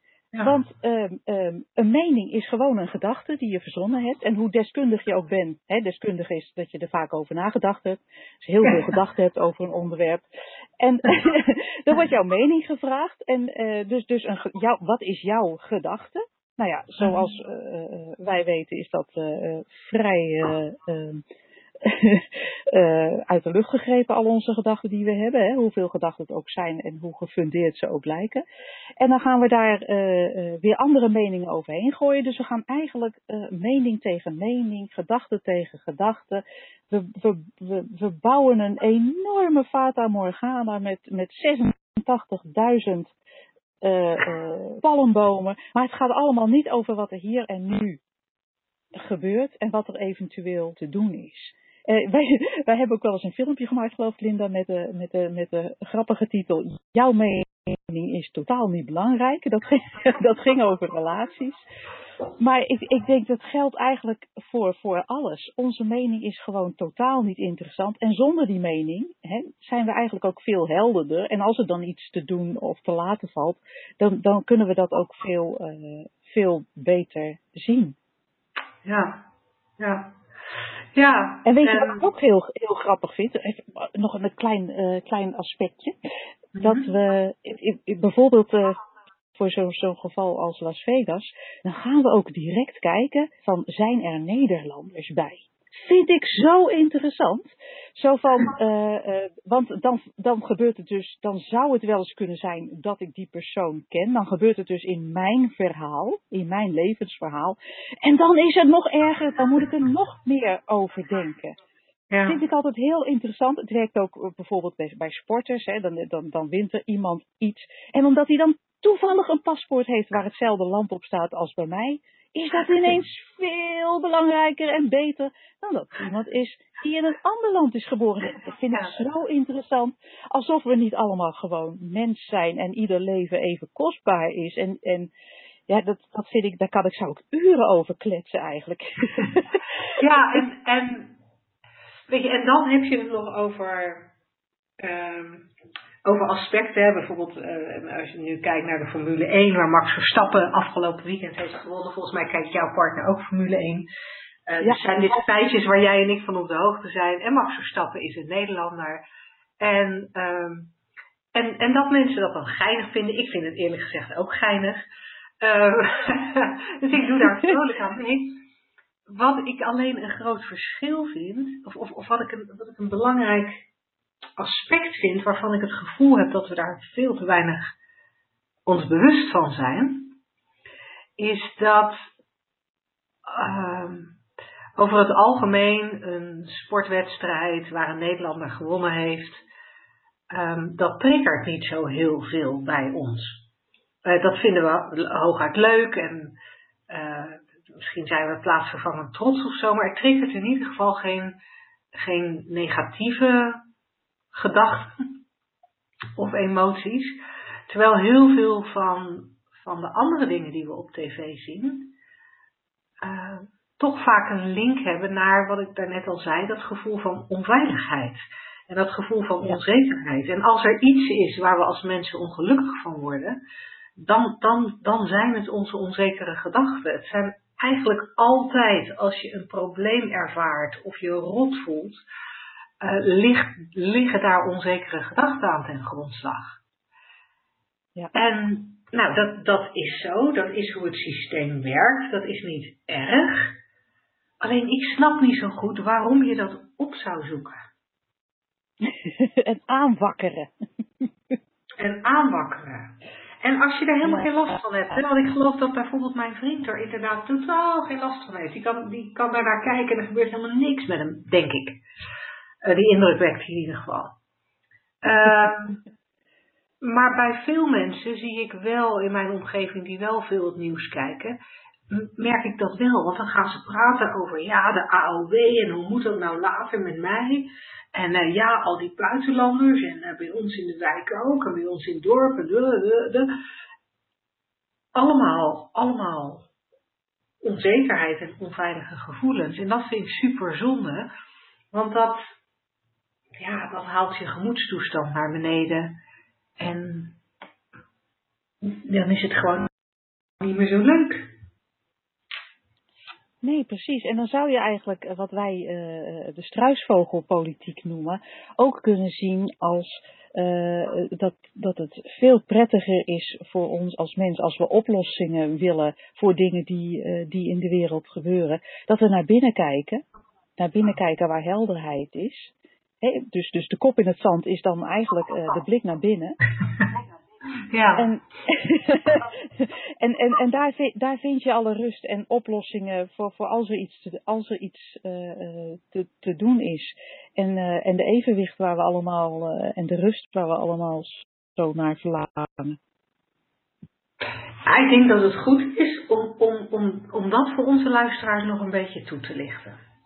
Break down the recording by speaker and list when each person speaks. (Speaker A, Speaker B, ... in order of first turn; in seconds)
Speaker A: 0.3-0.6, 8.6-8.9, 17.0-17.3, 78.8-79.2, 79.8-80.1, 80.9-82.0, 86.5-86.9, 112.1-112.4, 122.6-122.9, 140.0-141.2, 142.1-144.1, 144.8-145.5, 146.0-153.9, 154.5-159.0, 159.6-160.7, 161.3-164.8, 165.4-168.4, 169.1-173.6, 174.4-177.7, 178.7-180.2, 181.2-182.1, 183.2-184.2, 184.8-189.4, 190.3-193.5, 194.0-201.4, 201.9-203.7, 204.3-205.2, 206.2-211.9, 213.0-223.4, 224.0-232.0, 232.8-236.6, 238.1-243.6, 244.4-247.6, 251.8-261.8, 262.6-264.1, 265.0-265.8, 266.8-271.4, 271.9-283.3, 284.9-286.5, 287.4-291.1, 291.7-292.3, 293.4-296.0, 296.6-297.2, 298.6-299.7, 300.4-301.3, 327.7-328.1, 344.6-349.8
Speaker B: 0.4-10.2, 10.8-21.2, 21.8-28.4, 29.0-43.1, 43.8-48.0, 48.9-61.6, 62.4-78.0, 81.4-85.9, 86.6-88.8, 89.3-111.5, 112.2-135.1, 135.7-139.6, 248.8-250.5, 303.4-320.0, 320.6-326.4, 327.9-342.8